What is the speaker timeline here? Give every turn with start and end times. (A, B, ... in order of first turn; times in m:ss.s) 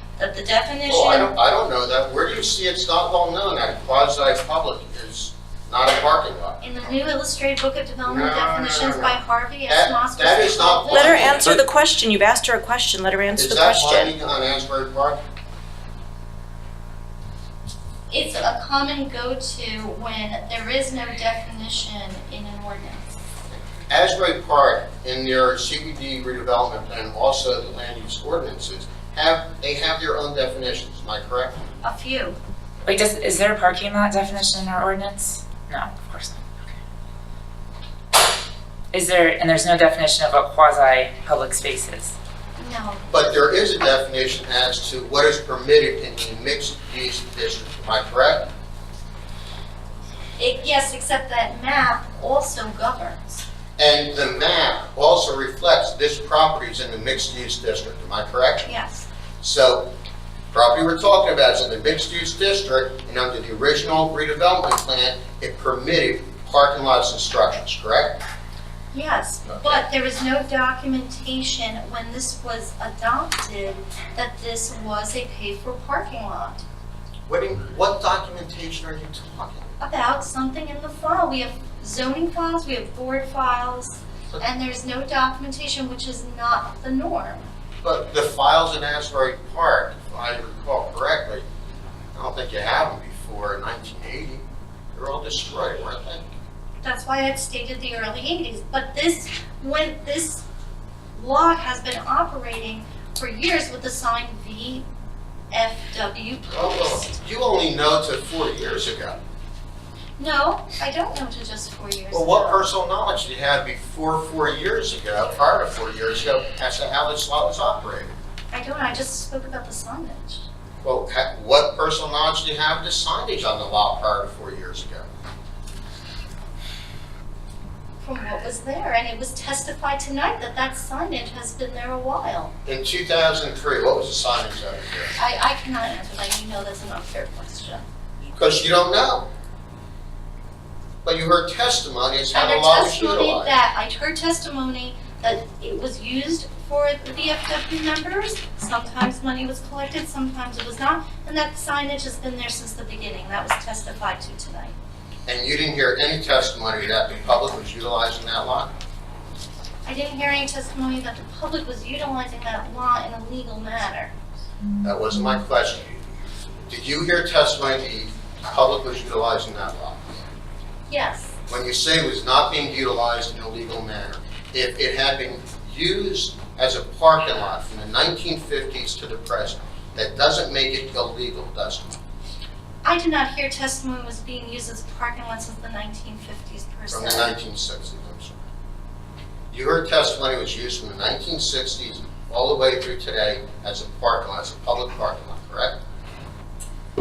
0:00.2-0:01.3 A
0:00.9-0:06.6 B
0:06.6-0:11.5 A
0:08.0-0:11.6 B
0:10.9-0:14.1 C
0:13.4-0:15.2 B
0:18.1-0:23.2 A
0:23.5-0:31.6 B
0:31.8-0:32.4 A
0:32.9-0:36.7 D
0:38.9-0:42.2 D
0:42.6-0:43.2 A
0:43.1-0:48.5 B
0:50.4-0:53.5 A
0:53.8-0:58.7 B
0:58.6-0:59.1 A
0:59.4-0:59.9 B
1:00.5-1:08.2 B
1:08.9-1:16.6 A
1:09.5-1:09.9 B
1:17.3-1:19.7 B
1:19.8-1:27.5 A
1:27.8-1:31.4 B
1:32.1-1:36.2 B
1:36.8-1:40.4 A
1:41.2-1:44.9 A
1:45.5-1:47.2 A
1:46.5-1:49.2 B
1:50.2-1:52.7 A
1:52.1-1:58.1 B
1:58.5-2:00.5 A
2:00.8-2:05.1 B
2:08.0-2:12.5 A
2:12.7-2:15.2 B
2:15.2-2:17.8 A
2:18.2-2:19.3 B
2:21.0-2:23.6 B
2:22.3-2:34.8 A
2:35.3-2:38.7 B
2:39.9-2:44.1 A
2:44.8-2:45.9 B
2:46.7-2:50.0 B
2:50.9-2:51.3 A
2:51.5-3:02.0 B
3:02.8-3:07.4 A
3:06.9-3:08.4 B
3:09.5-3:15.8 B